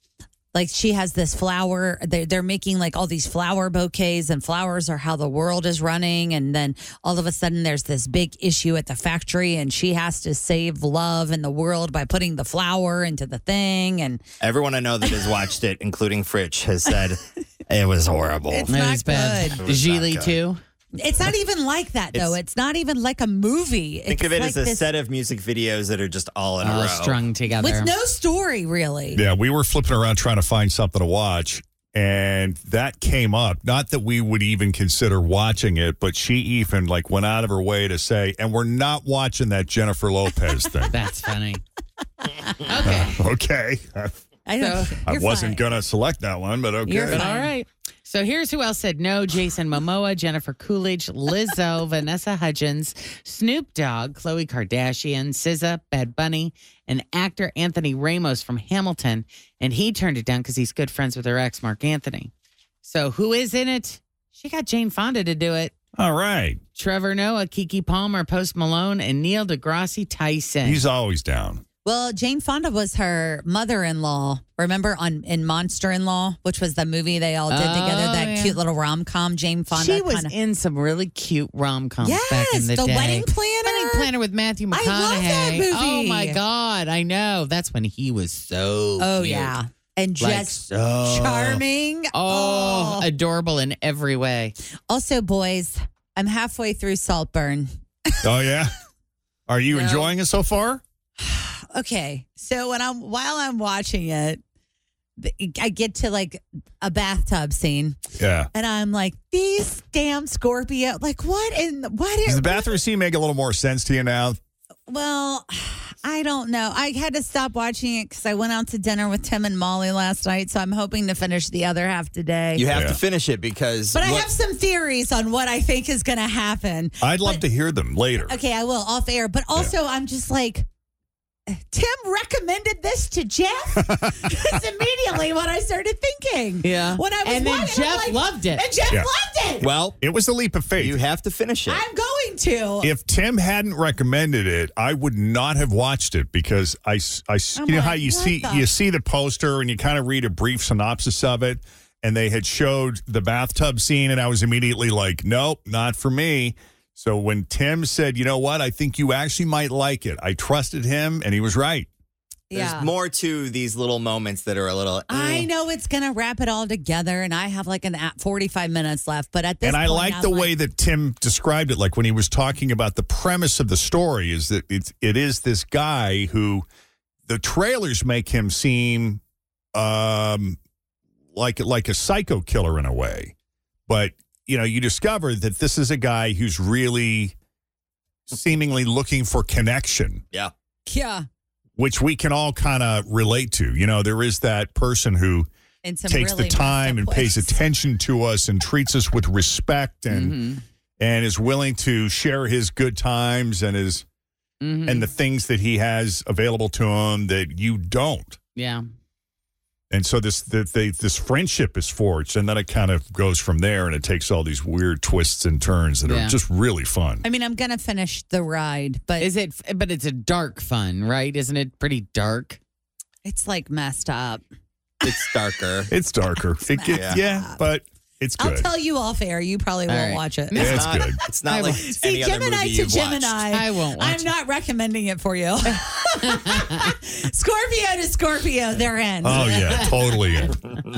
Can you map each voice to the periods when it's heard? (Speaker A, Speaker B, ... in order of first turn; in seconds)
Speaker A: 0.5-14.2, 18.5-19.6, 21.0-24.9, 27.6-29.2, 44.5-45.6, 46.9-47.5, 71.8-80.3, 82.0-84.1, 84.7-86.4, 89.0-93.1, 94.9-97.7, 99.7-100.1, 101.2-104.4, 105.2-108.0, 108.5-112.8, 114.9-122.7, 123.9-127.4, 128.2-130.7, 131.5-139.7, 141.7-142.9, 147.6-148.7, 162.5-162.9, 165.1-170.5, 190.9-191.2, 195.8-197.6, 217.2-219.3, 223.2-224.4, 226.7-227.6, 228.4-231.0, 231.8-239.9
Speaker B: 14.4-18.7, 19.3-20.4, 22.1-22.4, 24.1-27.2, 122.6-124.3, 139.6-140.0, 140.8-141.8, 162.5-165.5, 225.0-225.9, 226.9-227.2, 230.5-233.5
Speaker C: 18.7-20.6, 26.6-27.9, 40.9-41.6, 42.7-43.2, 44.6-45.0, 47.1-62.3, 62.8-65.7, 66.8-70.8, 77.5-78.6, 79.7-89.6, 90.2-91.6, 92.1-94.5, 136.6-138.7, 200.1-200.6, 204.6-205.1, 208.6-208.8, 216.1-216.4, 219.2-222.6, 229.9-230.7, 231.5-231.8, 233.5-234.3, 239.3-240.4
Speaker D: 29.1-40.9, 42.9-44.1, 45.1-47.3, 66.0-66.6, 70.7-71.6, 98.2-98.7, 99.5-100.8, 108.2-108.5, 112.3-114.4, 122.7-123.0, 127.0-128.4, 140.0-141.0, 142.8-161.9, 169.6-176.7, 177.3-179.2, 179.7-180.6, 181.3-183.3, 183.9-187.3, 188.3-190.2, 191.8-195.5, 196.1-200.4, 201.0-204.0, 204.9-208.4, 209.9-217.2, 225.9-228.7, 230.6-231.2, 239.2-240.6